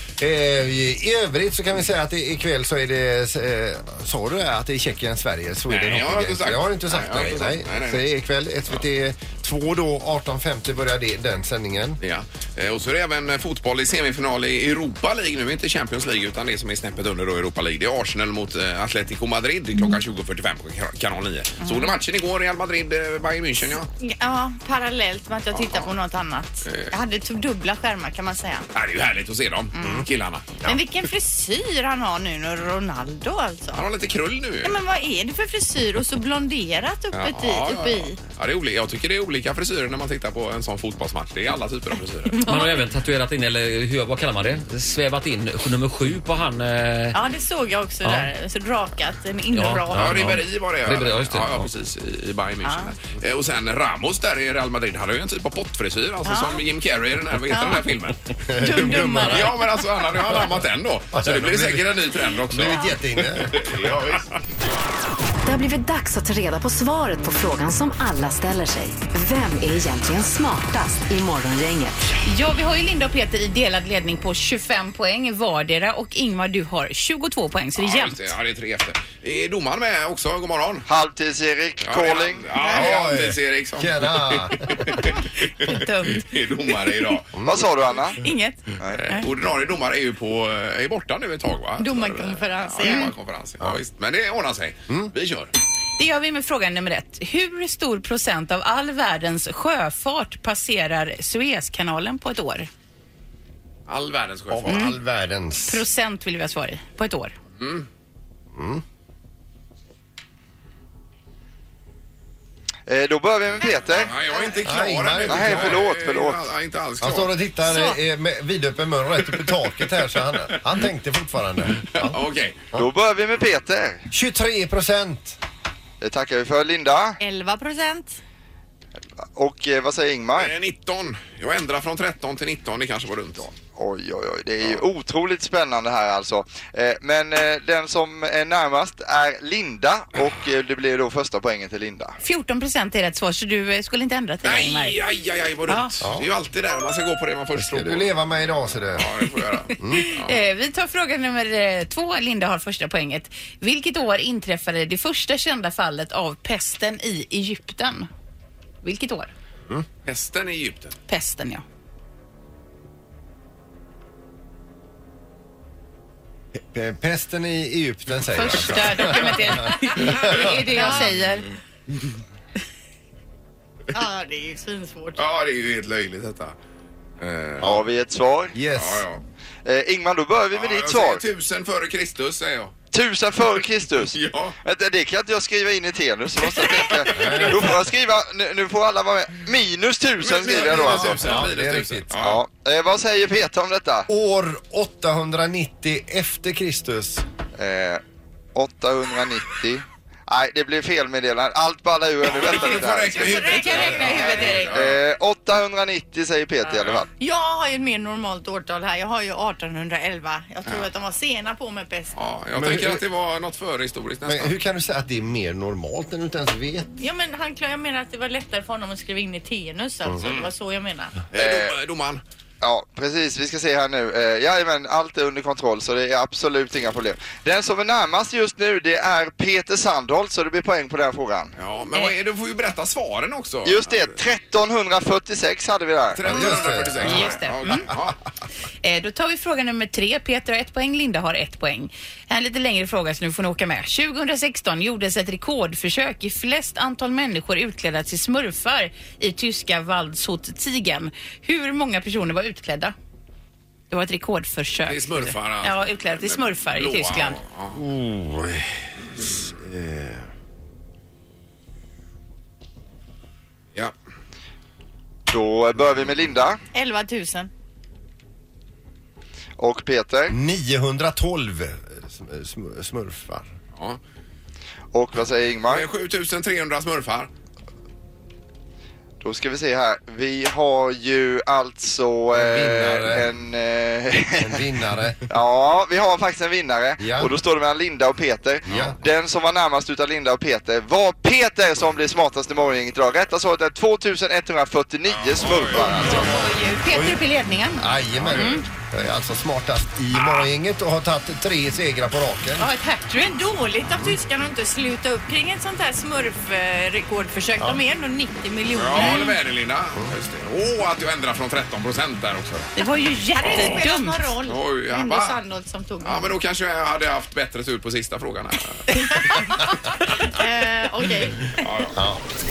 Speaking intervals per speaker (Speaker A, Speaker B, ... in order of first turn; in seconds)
Speaker A: 0.2-12.0, 58.5-59.5, 61.1-62.0, 62.5-63.9, 82.7-84.7, 87.3-87.7, 104.5-105.8, 108.5-108.8, 114.6-115.8, 117.0-122.2, 124.1-125.4, 146.0-146.3, 147.6-149.1, 149.8-150.1, 166.6-170.6, 178.5-179.1, 187.1-187.8, 190.5-192.1, 194.1-197.2, 212.6-213.0, 214.3-216.9, 236.3-237.8, 257.7-260.3, 270.3-273.5, 282.3-283.3, 284.4-285.2, 287.0-287.3, 288.7-289.0, 296.9-297.2, 297.8-302.7, 321.9-322.2
Speaker B: 5.7-8.1, 12.0-23.9, 25.5-25.9, 26.6-26.9, 28.7-30.6, 33.7-34.8, 37.1-42.4, 49.9-58.2, 59.3-64.3, 77.8-80.9, 81.8-87.4, 89.0-95.5, 103.9-105.0, 107.6-107.9, 114.0-117.3, 121.8-122.6, 130.3-133.5, 144.4-148.1, 148.9-150.4, 160.1-160.9, 170.1-170.5, 175.2-176.6, 177.2-177.8, 178.7-179.2, 180.5-182.7, 184.1-184.6, 190.2-192.4, 202.2-205.0, 212.2-214.5, 220.2-220.5, 221.3-222.2, 231.6-234.2, 236.1-238.2, 254.8-257.8, 275.7-277.3, 295.1-296.3, 308.8-312.7, 313.4-313.7, 314.5-315.4, 316.0-319.3, 321.6-322.0
Speaker C: 21.6-21.9, 24.0-28.7, 29.8-30.0, 30.6-33.8, 34.6-38.2, 42.3-42.8, 47.1-50.3, 52.6-52.9, 56.2-56.6, 57.5-57.8, 58.6-59.5, 82.5-82.8, 88.2-88.6, 91.8-93.1, 117.7-118.0, 127.2-128.2, 170.8-171.2, 173.9-175.2, 203.1-204.7, 207.2-212.2, 217.0-221.1, 266.7-267.5, 296.0-297.8, 298.4-298.6, 302.6-309.3, 312.8-316.4, 318.9-321.5
Speaker D: 42.5-47.2, 49.5-51.7
Speaker E: 65.5-72.0
Speaker F: 72.2-78.3, 85.6-86.2, 96.0-102.7, 105.7-107.3, 142.2-145.0, 149.8-158.1, 158.8-159.3, 161.1-161.6, 168.3-171.5, 237.0-237.9, 238.8-252.9, 253.9-257.4, 312.8-314.3
Speaker G: 80.9-82.4, 87.5-88.2, 112.9-114.1, 115.3-116.4, 122.8-124.1, 126.0-127.2, 129.3-130.5, 133.8-142.2, 177.6-178.6, 179.7-181.2, 182.9-191.4, 192.2-194.1, 197.6-198.0, 198.6-207.1, 221.4-221.7, 222.6-231.5, 233.7-236.5, 265.3-266.6, 269.6-270.4, 274.9-275.9, 279.2-284.6, 285.3-296.4